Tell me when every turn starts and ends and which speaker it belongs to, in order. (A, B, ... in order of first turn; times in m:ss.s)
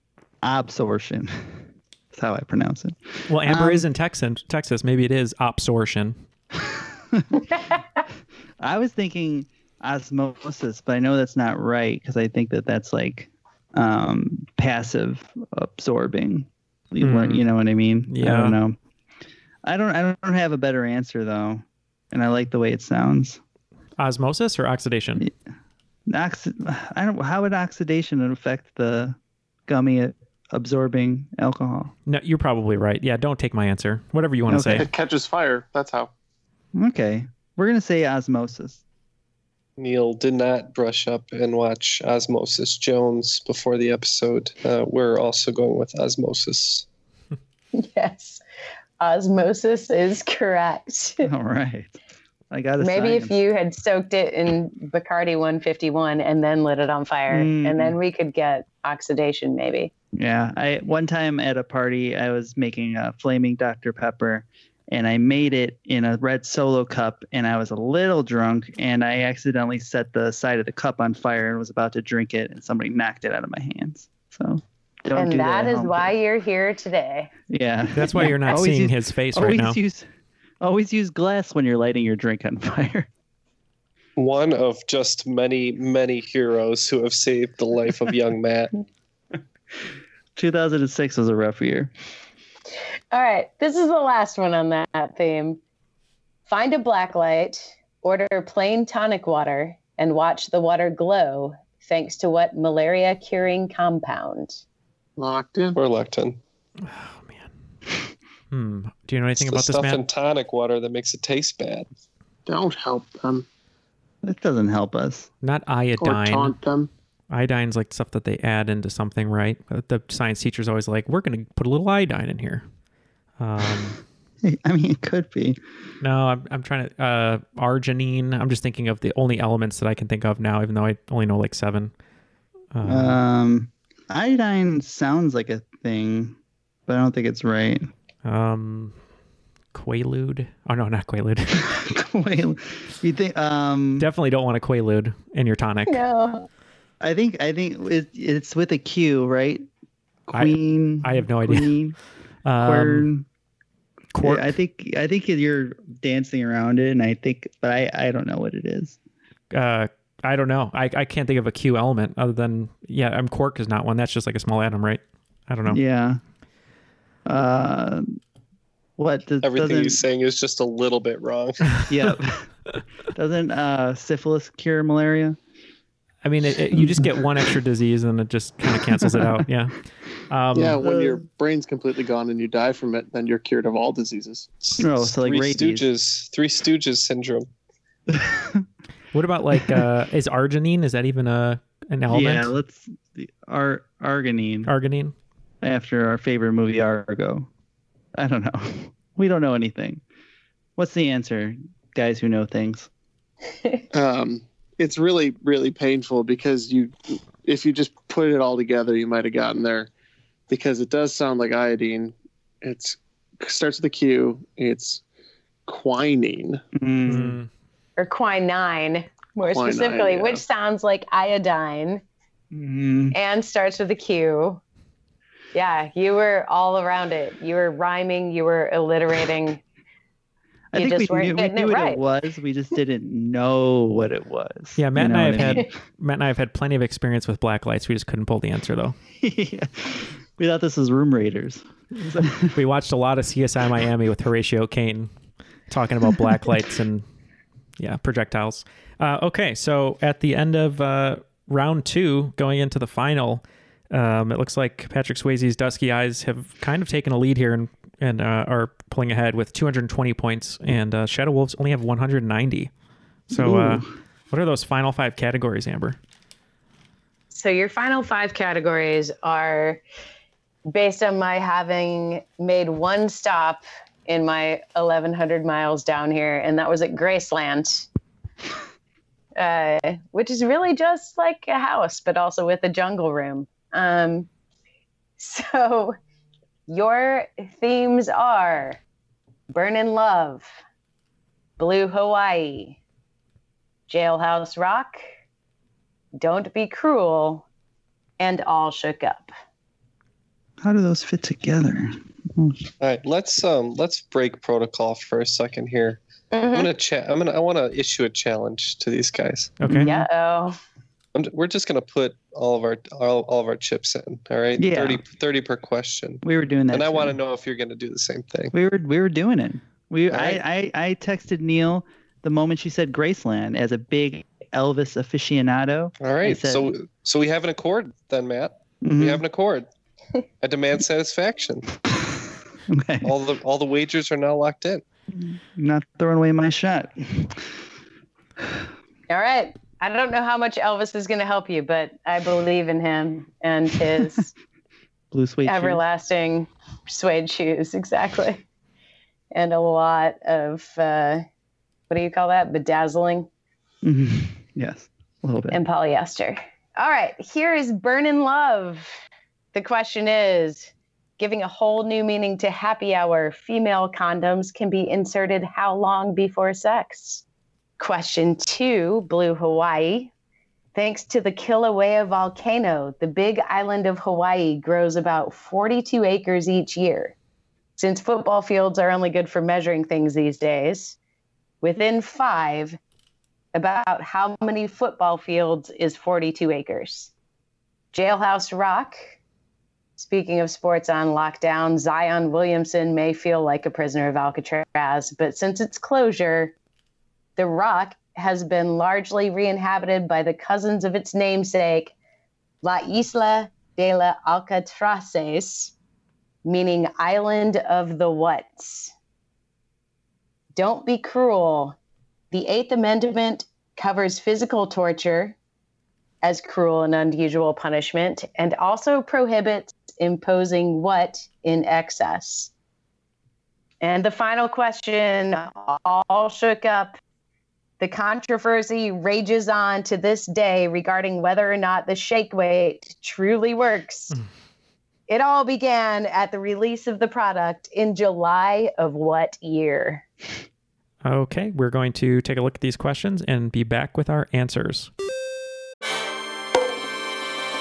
0:00.4-0:01.5 A
0:02.1-0:03.9 A
0:03.3-0:06.2 B
0:07.1-0:07.4 A
0:08.6-0:18.8 A
0:17.0-0:17.4 B
0:18.1-0:18.6 B
0:19.6-0:23.4 A
0:24.0-0:25.3 B
0:26.1-0:31.9 A
0:32.1-0:34.9 B
0:34.5-0:34.9 A
0:34.8-0:36.1 C
0:36.8-0:38.8 A
0:39.8-0:46.9 D
0:47.7-0:48.4 E
0:49.0-0:51.3 E
0:51.2-0:52.0 A
0:52.5-0:53.4 A
0:52.8-0:59.9 E
0:57.3-0:58.0 A
1:00.2-1:16.1 A
1:15.2-1:17.3 E
1:17.5-1:20.1 A
1:18.0-1:19.8 B
1:20.6-1:23.1 A
1:24.2-1:28.7 D
1:30.4-1:31.9 A
1:33.1-1:35.6 E
1:36.5-1:44.6 E
1:45.2-1:45.8 C
1:45.8-1:46.4 D
1:46.8-1:47.5 B
1:48.5-1:50.0 B
1:49.4-1:51.9 D
1:52.5-1:53.4 C
1:54.2-1:55.3 A
1:55.4-1:56.6 B
1:56.0-1:56.9 C
1:57.3-2:02.6 B
2:03.4-2:04.0 B
2:04.4-2:05.6 A
2:06.0-2:11.9 B
2:12.7-2:13.2 B
2:12.8-2:17.9 A
2:18.2-2:18.9 B
2:19.7-2:21.8 B
2:21.8-2:24.1 A
2:24.0-2:26.0 B
2:25.9-2:26.5 E
2:27.0-2:29.7 A
2:30.3-2:32.0 A
2:30.3-2:31.7 B
2:32.4-2:33.1 B
2:32.6-2:33.3 A
2:34.1-2:34.5 B
2:34.2-2:39.0 A
2:39.5-2:45.8 B
2:45.7-2:46.2 A
2:47.3-2:48.2 A
2:49.0-2:50.0 A
2:49.4-2:51.8 D
2:51.9-2:52.4 A
2:53.1-2:55.4 A
2:56.2-3:00.8 B
2:56.8-2:57.1 A
2:59.0-2:59.4 A
3:00.5-3:04.5 C
3:00.8-3:01.2 A
3:04.7-3:07.5 D
3:04.8-3:05.9 A
3:08.1-3:08.6 A
3:09.1-3:12.5 B
3:12.1-3:14.7 A
3:14.7-3:15.2 B
3:15.6-3:17.5 A
3:18.2-3:20.0 A
3:20.8-3:22.9 A
3:23.9-3:29.9 C
3:30.5-3:35.0 C
3:35.7-3:36.6 C
3:36.8-3:37.4 A
3:37.0-3:37.5 B
3:38.0-3:42.0 E
3:39.5-3:40.4 C
3:42.5-3:43.2 A
3:43.1-3:44.6 E
3:45.5-3:49.6 E
3:50.7-3:55.7 A
3:50.8-3:52.0 E
3:54.8-3:59.0 B
3:59.2-4:02.6 A
4:02.4-4:05.1 B
4:05.7-4:07.0 B
4:07.8-4:22.7 B
4:23.3-4:26.0 B
4:23.3-4:23.9 A
4:27.3-4:29.8 E
4:30.7-4:37.9 E
4:39.4-4:44.3 E
4:45.2-4:46.0 E
4:46.7-4:48.8 E
4:49.5-4:50.6 E
4:51.6-4:52.8 E
4:53.9-4:55.0 E
4:56.2-4:57.5 E
4:58.2-4:59.3 E
5:00.6-5:02.7 A
5:02.8-5:09.6 D
5:06.3-5:06.7 E
5:09.6-5:09.9 B
5:09.6-5:10.1 A
5:09.8-5:10.6 E
5:11.2-5:18.5 D
5:14.6-5:15.0 A
5:16.2-5:17.2 A
5:18.5-5:26.7 A
5:20.1-5:20.4 D
5:26.0-5:29.7 D
5:28.8-5:29.2 A
5:30.4-5:31.7 D
5:32.7-5:33.1 A
5:33.0-5:34.8 D
5:35.1-5:37.5 A
5:39.1-5:44.3 E
5:45.1-5:45.8 A
5:45.4-5:48.4 E
5:49.3-5:51.2 E
5:51.9-5:53.3 E
5:53.8-5:55.6 A
5:55.5-5:59.0 E
5:59.5-6:07.2 E
6:07.8-6:10.1 E
6:10.8-6:17.2 E
6:17.8-6:21.0 E
6:21.6-6:22.8 E
6:23.5-6:27.1 E
6:27.9-6:29.0 E
6:30.0-6:36.5 E
6:37.4-6:41.9 E
6:42.6-6:45.7 E
6:46.4-6:48.9 E
6:50.6-6:51.8 E
6:52.3-6:55.4 E
6:56.2-7:02.5 E
7:03.8-7:07.0 E
7:07.8-7:14.2 E
7:15.1-7:20.0 E
7:21.0-7:24.9 B